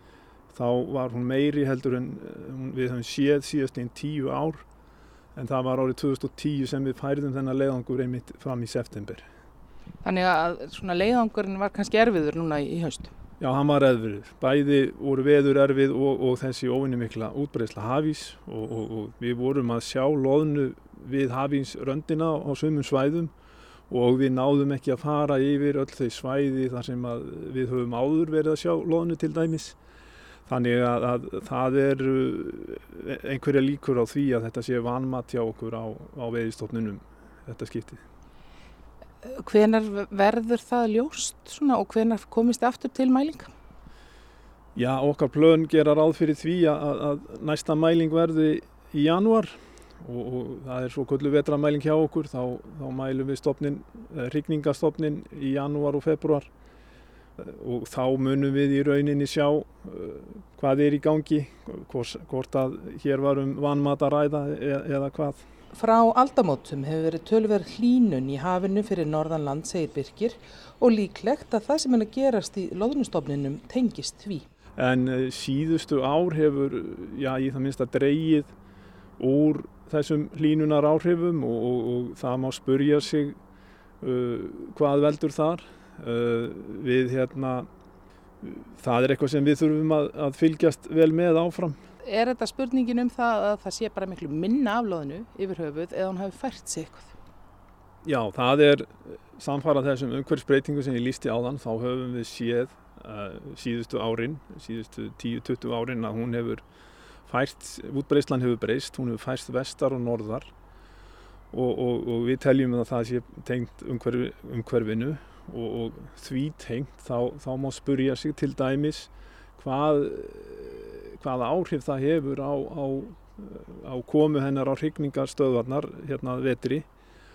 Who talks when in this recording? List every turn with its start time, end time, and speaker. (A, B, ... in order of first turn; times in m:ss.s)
0:00.5-0:04.6 A
0:05.3-0:09.3 A
0:10.0-0:13.1 B
0:13.4-0:23.3 A
0:23.9-0:29.8 A
0:30.5-0:38.0 A
0:39.2-0:43.5 B
0:44.7-0:56.5 A
0:57.4-1:05.4 A
1:05.7-1:14.4 B
1:14.8-1:18.5 A
1:19.2-1:23.4 A
1:24.0-1:27.7 A
1:28.4-1:31.8 A
1:32.0-1:37.1 B
1:38.0-1:46.6 A
1:47.2-1:50.5 A
1:51.5-2:06.9 A